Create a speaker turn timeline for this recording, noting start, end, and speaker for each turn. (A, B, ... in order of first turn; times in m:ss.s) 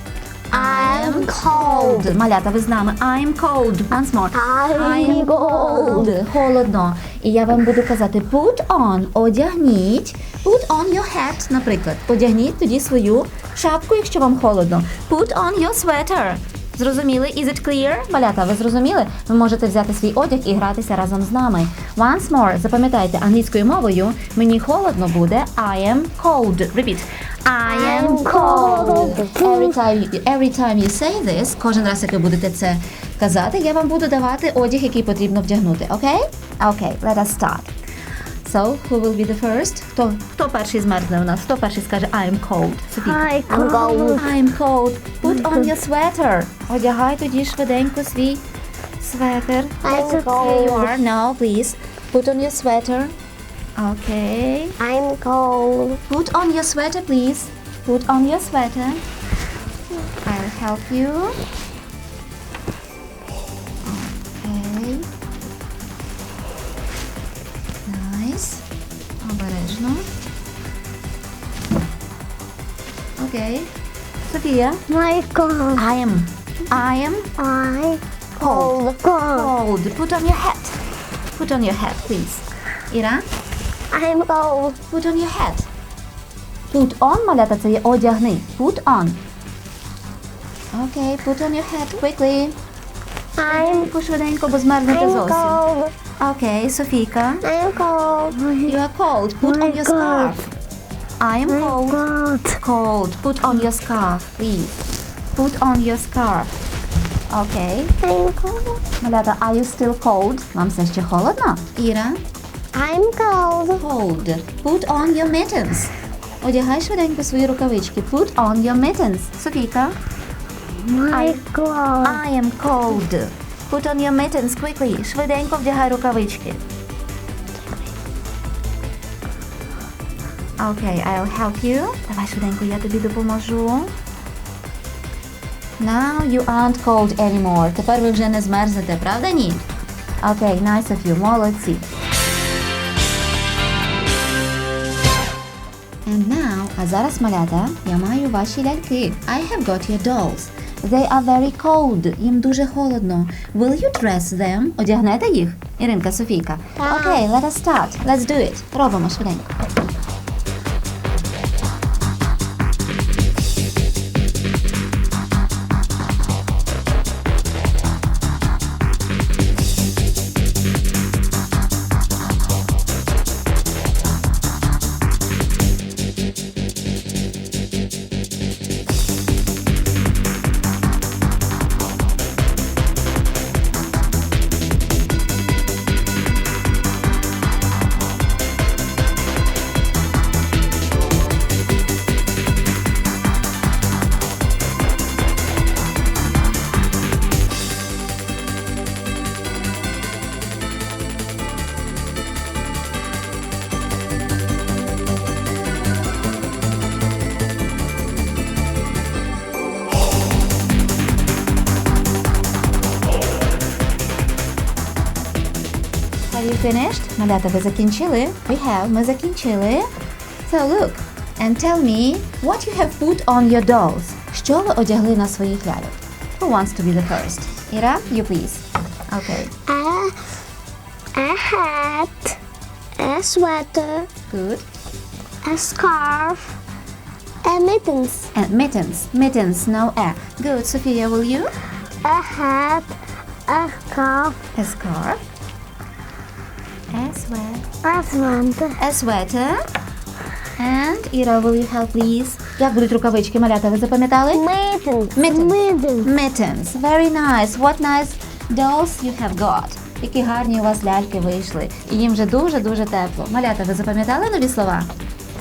0:00.5-0:37.7 A
0:00.5-0:02.1 B
0:04.3-0:06.1 B
0:27.6-0:29.8 B
0:38.4-0:48.4 A
0:43.0-0:44.4 B
0:45.4-0:45.7 B
0:49.0-0:53.1 A
0:49.8-0:51.0 B
0:53.8-0:54.8 A
0:54.8-0:56.0 B
0:56.1-0:59.0 A
1:00.2-1:01.4 A
1:03.8-1:05.1 A
1:07.8-1:08.6 A
1:09.2-1:10.0 A
1:13.2-1:13.7 A
1:14.2-1:14.8 A
1:14.9-1:15.8 B
1:15.7-1:17.3 A
1:17.4-1:19.5 B
1:18.4-1:20.8 A
1:21.3-1:23.2 A
1:23.9-1:24.8 B
1:24.9-1:25.7 A
1:26.7-1:29.2 A
1:30.7-1:32.5 A
1:33.4-1:33.9 B
1:33.5-1:35.6 A
1:34.9-1:35.9 B
1:36.2-1:37.4 A
1:37.4-1:38.8 B
1:38.6-1:40.5 A
1:39.4-1:40.4 B
1:41.2-1:42.0 A
1:41.5-1:42.6 B
1:42.6-1:44.8 A
1:45.3-1:46.5 A
1:47.3-1:47.9 A
1:48.0-1:48.8 B
1:49.0-1:52.2 A
1:52.7-1:53.8 B
1:53.7-1:59.9 A
2:00.7-2:02.2 B
2:01.1-2:01.4 A
2:02.0-2:06.6 A
2:10.6-2:13.9 A
2:15.8-2:19.6 A
2:20.2-2:21.8 A
2:26.0-2:39.6 A
2:36.8-2:37.2 B
3:36.3-3:39.9 A
3:40.4-3:49.5 A
3:49.7-3:50.2 B
3:51.2-3:52.4 B
3:53.0-3:54.1 B
3:54.3-3:54.6 A
3:55.4-3:56.5 B
3:57.4-3:58.3 B
3:58.3-4:01.5 A
4:02.0-4:02.9 B
4:03.5-4:04.4 B
4:04.5-4:05.2 A
4:06.9-4:07.6 A
4:07.8-4:08.8 B
4:08.8-4:09.6 A
4:10.6-4:14.4 A
4:14.3-4:16.1 B
4:15.2-4:24.9 A